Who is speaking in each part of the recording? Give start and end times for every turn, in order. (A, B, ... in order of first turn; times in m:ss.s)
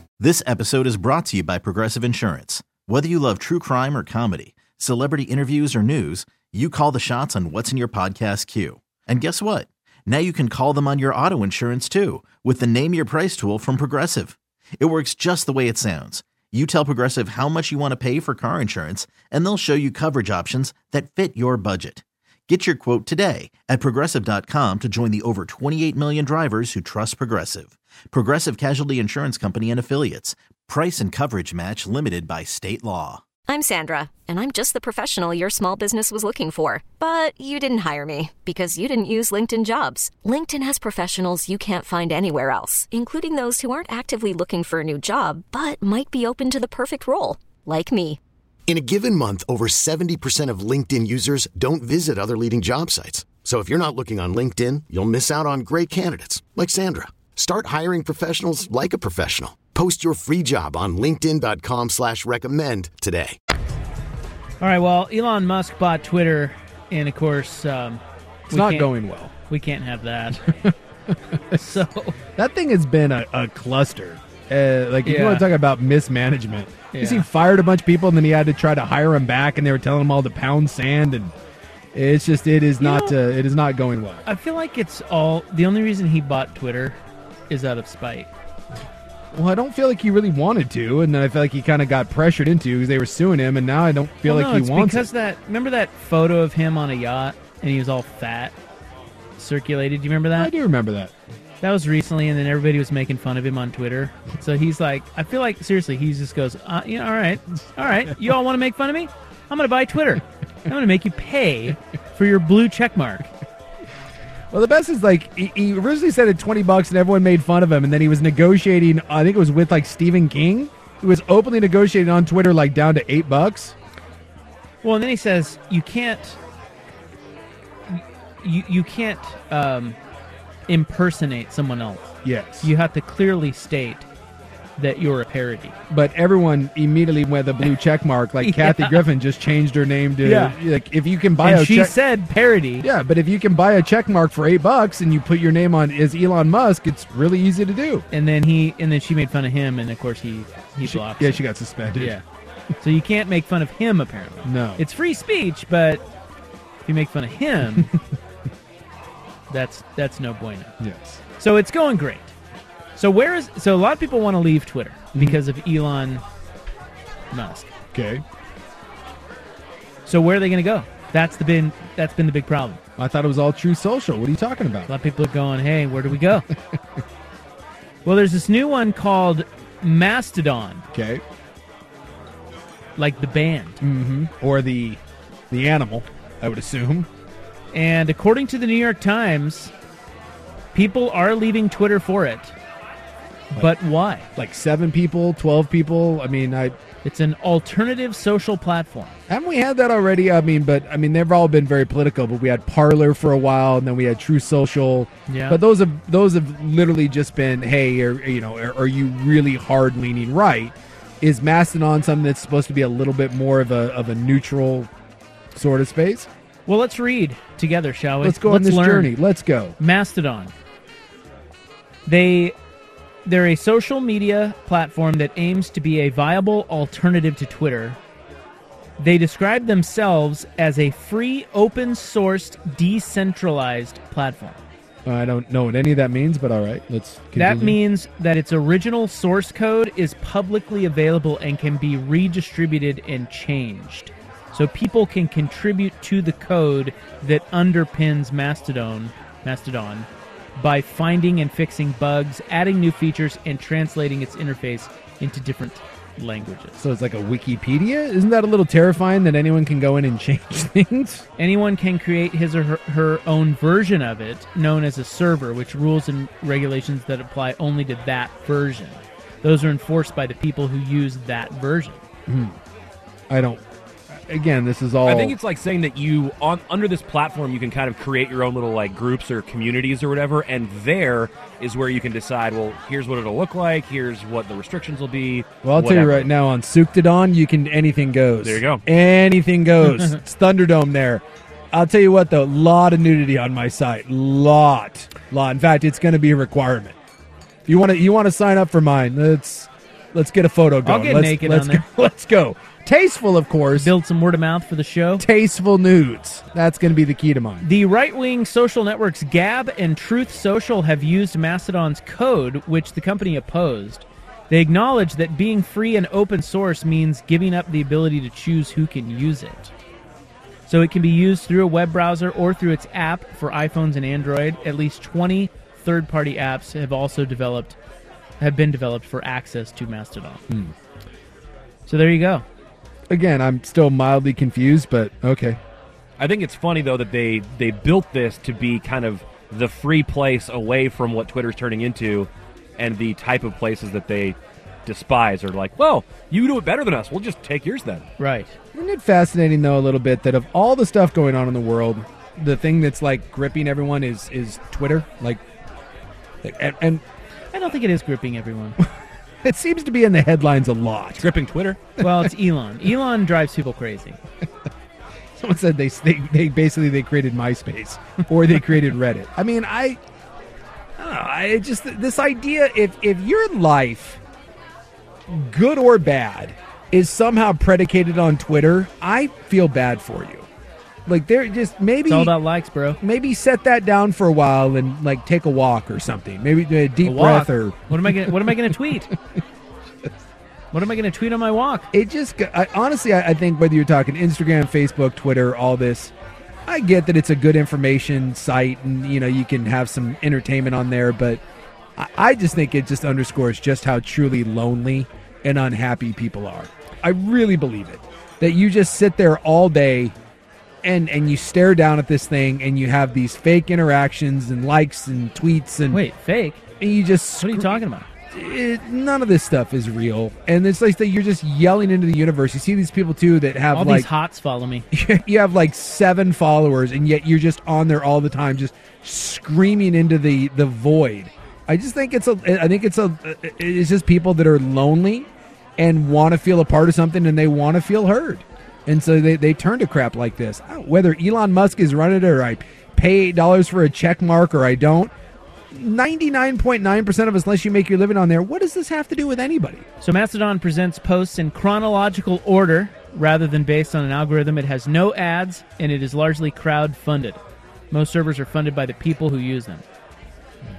0:00.2-0:33.2 A
0:33.5-0:48.2 B
0:48.7-1:03.4 C
1:04.6-1:08.9 D
1:08.5-1:09.3 E
1:09.5-1:10.5 D
1:11.5-1:12.2 D
1:12.4-1:21.3 E
1:15.0-1:15.5 D
1:16.9-1:17.3 D
1:21.9-1:24.2 E
1:22.8-1:23.2 D
1:24.3-1:27.0 D
1:27.5-1:28.3 D
1:29.3-1:35.1 E
1:34.2-1:38.6 D
1:39.4-1:40.5 D
1:40.3-1:41.1 E
1:41.6-1:53.3 D
1:54.5-2:03.8 E
2:04.8-2:06.4 D
2:07.9-2:10.0 D
2:10.7-2:14.1 D
2:12.2-2:12.7 E
2:14.8-2:15.8 D
2:15.9-2:22.0 E
2:18.4-2:19.0 D
2:20.2-2:20.6 D
2:21.4-2:22.9 D
2:22.8-2:28.0 E
2:28.1-2:32.2 D
2:30.8-2:32.2 E
2:32.8-2:36.0 D
2:34.4-2:34.8 E
2:36.8-2:37.9 D
2:39.5-2:40.7 D
2:40.8-2:41.2 E
2:41.4-2:42.3 D
2:43.0-2:46.2 D
2:47.3-2:47.7 D
2:47.9-2:48.2 E
2:50.1-2:52.8 D
2:53.0-2:54.9 E
2:54.9-2:56.5 D
2:58.0-3:00.8 D
3:00.9-3:01.2 E
3:03.0-3:03.8 D
3:03.8-3:07.1 E
3:07.7-3:09.7 D
3:10.7-3:12.5 D
3:13.5-3:14.3 D
3:14.4-3:16.8 E
3:17.0-3:19.2 D
3:19.3-3:34.9 E
3:25.3-3:25.6 D
3:35.5-3:36.3 E
3:36.7-3:39.1 D
3:38.2-3:39.8 E
3:39.8-3:40.5 D
3:42.1-3:42.6 D
3:43.2-3:48.0 D
3:49.0-3:54.6 D
3:55.0-3:57.8 E
3:57.4-4:16.8 D
4:16.8-4:21.2 E
4:21.4-4:32.0 D
4:32.3-4:32.6 E
4:33.3-4:35.4 E
4:35.0-4:46.3 F
4:45.6-4:57.0 E
4:48.4-4:48.8 F
4:57.7-5:03.9 E
5:00.8-5:01.8 D
5:03.8-5:05.3 D
5:05.2-5:07.7 E
5:07.6-5:19.7 D
5:20.7-5:27.8 D
5:28.4-5:30.4 D
5:30.5-5:30.7 E
5:31.9-5:32.4 D
5:33.1-5:35.6 E
5:36.2-5:48.1 F
5:48.2-5:48.6 D
5:48.7-5:55.4 E
5:56.4-5:57.0 E
5:57.5-5:58.8 D
5:59.4-6:01.3 E
6:01.2-6:01.8 F
6:02.0-6:04.2 D
6:02.0-6:02.3 E
6:05.4-6:10.0 E
6:11.0-6:14.2 E
6:15.3-6:20.5 E
6:21.1-6:22.4 E
6:22.1-6:23.0 D
6:23.0-6:28.9 E
6:27.0-6:29.1 D
6:30.7-6:31.9 D
6:31.9-6:36.1 E
6:36.7-6:41.4 E
6:42.0-6:50.2 E
6:50.8-6:56.0 E
6:55.9-6:56.6 D
6:56.8-7:04.1 E
6:57.4-6:58.1 D
7:03.7-7:04.9 D
7:04.9-7:25.1 E
7:25.7-7:29.9 E
7:30.0-7:37.4 D
7:37.9-7:39.8 D